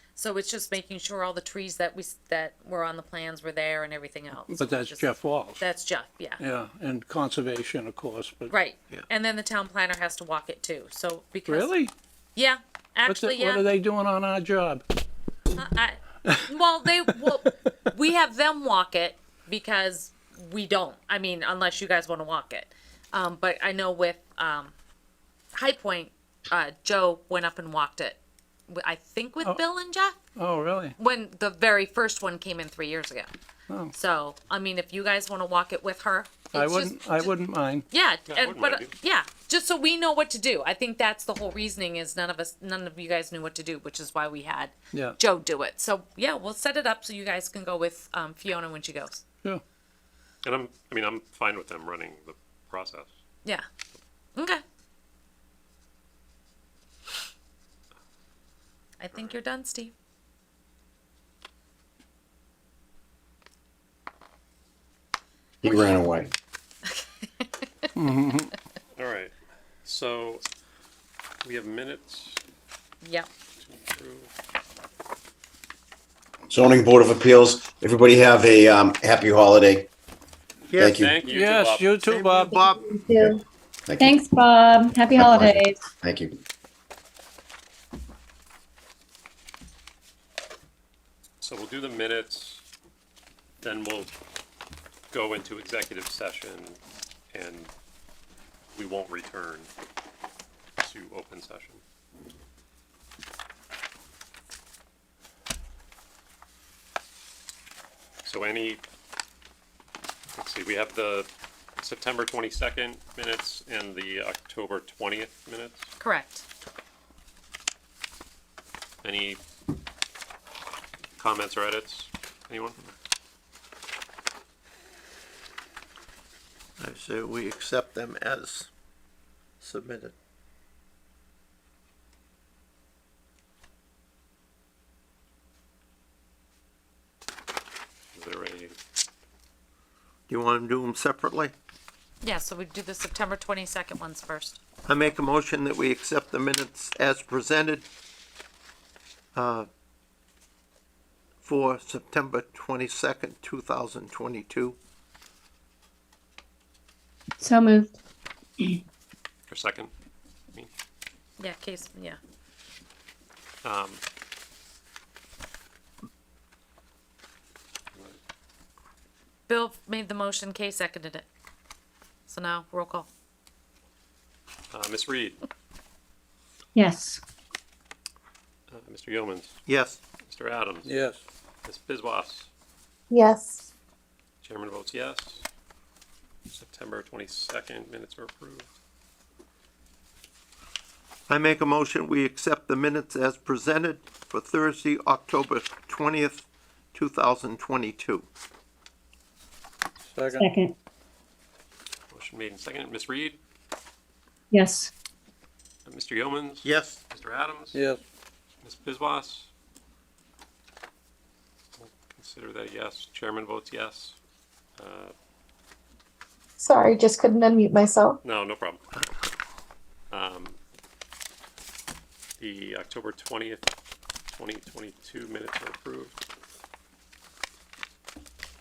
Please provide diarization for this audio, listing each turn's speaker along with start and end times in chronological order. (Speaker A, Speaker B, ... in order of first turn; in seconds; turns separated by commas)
Speaker A: 0.2-6.4, Speaker B: 4.4-5.7, Speaker B: 6.4-8.5, Speaker A: 8.5-11.7, Speaker B: 11.5-11.9, Speaker A: 12.3-13.7, Speaker B: 13.1-14.8, Speaker A: 15.5-24.8, Speaker B: 17.1-17.6, Speaker A: 25.5-30.1, Speaker B: 30.4-30.9, Speaker A: 31.0-33.3, Speaker B: 33.7-33.9, Speaker A: 33.9-37.3, Speaker B: 36.5-37.9, Speaker A: 37.9-49.2, Speaker C: 38.3-38.9, Speaker C: 50.4-53.1, Speaker A: 54.4-54.6, Speaker A: 59.0-59.9, Speaker D: 65.6-66.3, Speaker A: 65.6-65.9, Speaker A: 66.9-67.9, Speaker B: 68.0-68.5, Speaker C: 69.0-69.3, Speaker C: 69.8-70.4, Speaker C: 71.4-72.4, Speaker A: 73.0-73.3, Speaker C: 73.6-74.3, Speaker D: 76.5-79.9, Speaker E: 80.7-81.0, Speaker D: 80.8-81.1, Speaker C: 80.8-82.0, Speaker B: 81.3-82.6, Speaker E: 82.0-82.9, Speaker F: 82.5-83.4, Speaker D: 83.2-84.2, Speaker F: 84.0-85.8, Speaker D: 85.1-86.4, Speaker C: 91.4-92.6, Speaker C: 93.6-94.1, Speaker C: 95.1-96.8, Speaker C: 97.3-97.7, Speaker C: 98.8-99.7, Speaker C: 100.8-101.8, Speaker C: 108.2-108.8, Speaker C: 110.3-111.3, Speaker C: 111.8-115.9, Speaker A: 116.0-116.5, Speaker C: 119.0-119.4, Speaker C: 121.2-122.8, Speaker E: 126.8-128.7, Speaker E: 129.6-130.1, Speaker C: 138.1-138.8, Speaker E: 140.3-141.5, Speaker A: 142.2-144.6, Speaker E: 144.8-147.8, Speaker E: 149.3-149.7, Speaker E: 151.4-154.8, Speaker F: 157.4-157.9, Speaker C: 159.5-159.9, Speaker A: 161.4-162.2, Speaker C: 163.6-164.0, Speaker A: 169.5-171.2, Speaker A: 172.3-173.1, Speaker C: 174.7-175.4, Speaker F: 176.8-177.2, Speaker C: 178.7-179.6, Speaker E: 179.7-180.0, Speaker C: 180.2-180.9, Speaker B: 180.8-181.2, Speaker C: 181.6-182.5, Speaker G: 183.1-183.5, Speaker C: 184.4-185.5, Speaker C: 186.5-188.7, Speaker E: 191.3-198.3, Speaker B: 200.1-200.5, Speaker F: 200.3-200.7, Speaker C: 202.1-203.4, Speaker F: 204.5-204.9, Speaker C: 205.8-207.8, Speaker E: 206.6-207.0, Speaker B: 207.7-208.0, Speaker C: 208.6-209.5, Speaker C: 211.8-214.2, Speaker C: 214.8-215.1, Speaker G: 216.6-218.2, Speaker C: 218.2-218.8, Speaker C: 220.1-220.6, Speaker C: 222.4-223.7, Speaker C: 224.3-226.2